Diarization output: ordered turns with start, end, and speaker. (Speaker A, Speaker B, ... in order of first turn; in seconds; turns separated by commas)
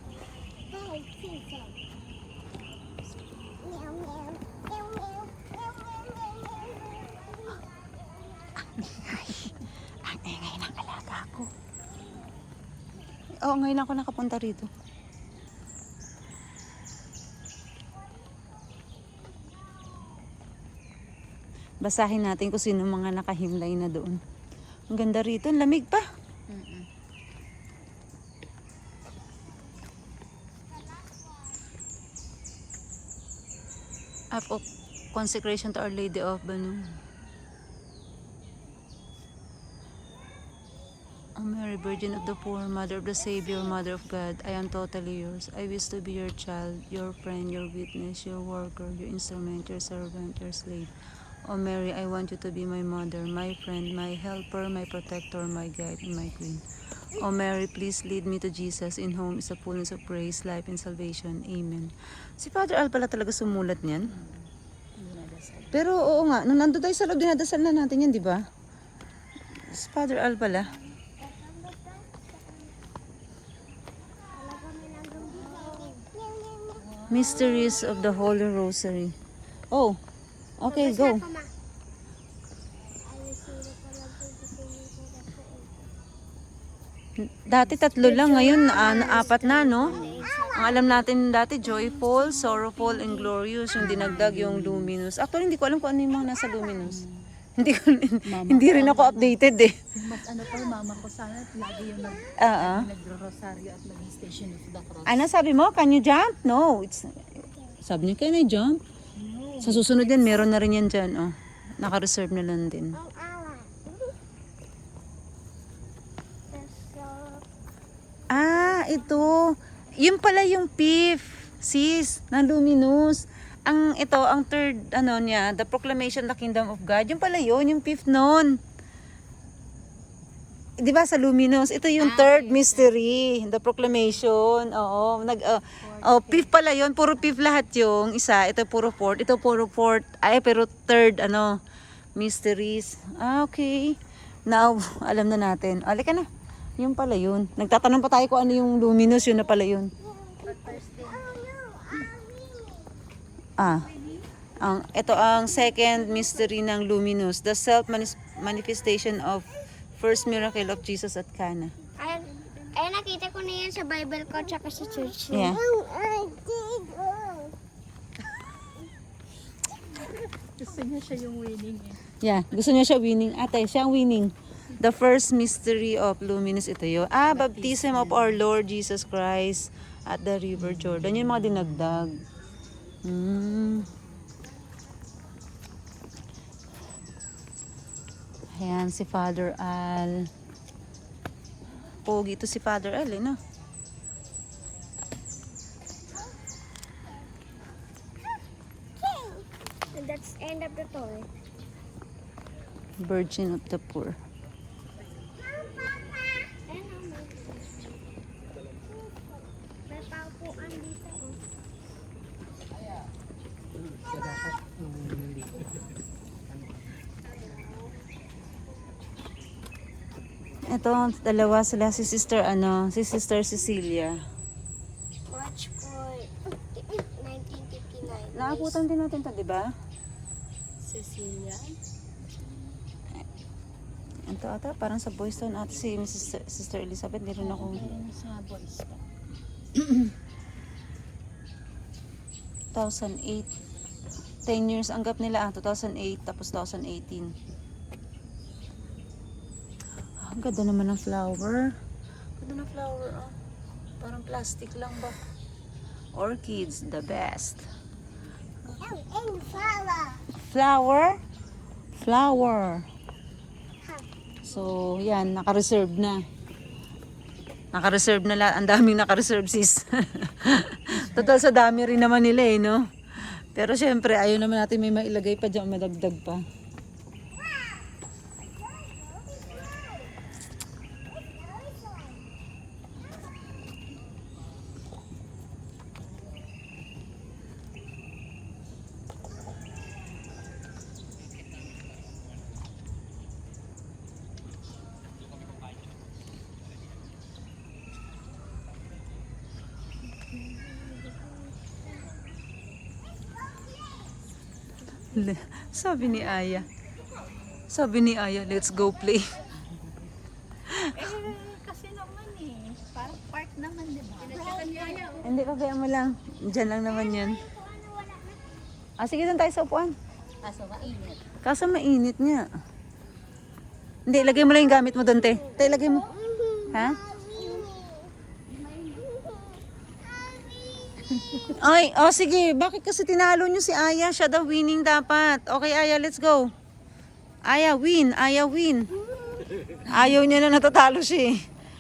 Speaker A: 0.6-1.8, Speaker A: 3.6-8.7, Speaker B: 8.8-11.5, Speaker B: 13.4-14.7, Speaker B: 21.8-24.2, Speaker B: 24.9-26.0, Speaker C: 26.5-26.9, Speaker B: 34.3-37.0, Speaker B: 41.4-50.9, Speaker B: 51.5-64.1, Speaker C: 64.1-64.5, Speaker C: 65.0-65.9, Speaker B: 65.7-68.4, Speaker B: 69.6-70.7, Speaker A: 71.0-72.7, Speaker A: 74.3-76.9, Speaker C: 75.3-76.0, Speaker C: 76.8-77.6, Speaker B: 77.1-79.1, Speaker A: 77.6-78.1, Speaker B: 79.7-80.0, Speaker B: 80.6-81.2, Speaker A: 80.6-81.5, Speaker A: 83.0-85.9, Speaker B: 87.2-97.0, Speaker A: 88.0-91.1, Speaker C: 89.9-90.2, Speaker C: 91.8-94.9, Speaker C: 96.8-97.3, Speaker B: 97.6-99.8, Speaker C: 98.2-105.2, Speaker B: 102.4-102.8, Speaker B: 105.1-108.8, Speaker C: 109.2-110.1, Speaker B: 109.6-113.0, Speaker A: 110.1-110.4, Speaker A: 112.9-114.1, Speaker A: 116.5-117.5, Speaker B: 118.3-128.6, Speaker A: 118.8-119.2, Speaker B: 130.8-141.6, Speaker C: 132.0-132.9, Speaker C: 135.8-136.5, Speaker B: 142.2-144.0, Speaker B: 144.5-146.3, Speaker B: 146.8-149.9, Speaker A: 150.1-153.0, Speaker C: 150.4-151.4, Speaker B: 153.6-153.9, Speaker C: 153.7-154.2, Speaker B: 154.6-161.8, Speaker A: 162.0-167.5, Speaker B: 165.3-165.6, Speaker C: 170.0-172.1, Speaker B: 172.2-182.2, Speaker C: 177.3-178.4, Speaker B: 183.0-183.9, Speaker B: 188.6-190.3, Speaker B: 192.1-193.4, Speaker A: 199.0-201.3, Speaker B: 203.0-204.2, Speaker A: 205.6-208.0, Speaker A: 209.9-211.4, Speaker B: 220.7-224.2, Speaker A: 225.3-228.8, Speaker B: 228.3-229.7, Speaker C: 230.8-231.8, Speaker B: 234.3-237.9, Speaker C: 237.4-239.0, Speaker B: 242.7-243.5, Speaker B: 244.4-247.3, Speaker B: 250.2-251.7, Speaker B: 252.4-253.3, Speaker B: 254.0-255.2, Speaker B: 256.1-257.6, Speaker A: 258.7-260.2, Speaker B: 260.3-261.2, Speaker B: 262.0-262.9, Speaker C: 264.4-264.7, Speaker B: 264.5-266.2, Speaker B: 267.7-276.4, Speaker C: 270.9-271.4, Speaker A: 281.8-282.1, Speaker B: 305.1-306.7, Speaker B: 307.7-309.4, Speaker B: 310.7-311.0, Speaker C: 310.8-315.2, Speaker A: 314.4-315.2, Speaker B: 315.2-317.4, Speaker A: 316.8-318.7, Speaker B: 319.0-319.9, Speaker C: 320.4-321.2, Speaker B: 321.4-322.5, Speaker B: 324.1-326.1, Speaker A: 325.4-328.1, Speaker B: 326.7-327.0, Speaker C: 328.7-329.0, Speaker A: 329.1-329.6, Speaker C: 331.1-331.6, Speaker B: 331.5-336.5, Speaker B: 337.4-338.9, Speaker B: 339.9-341.4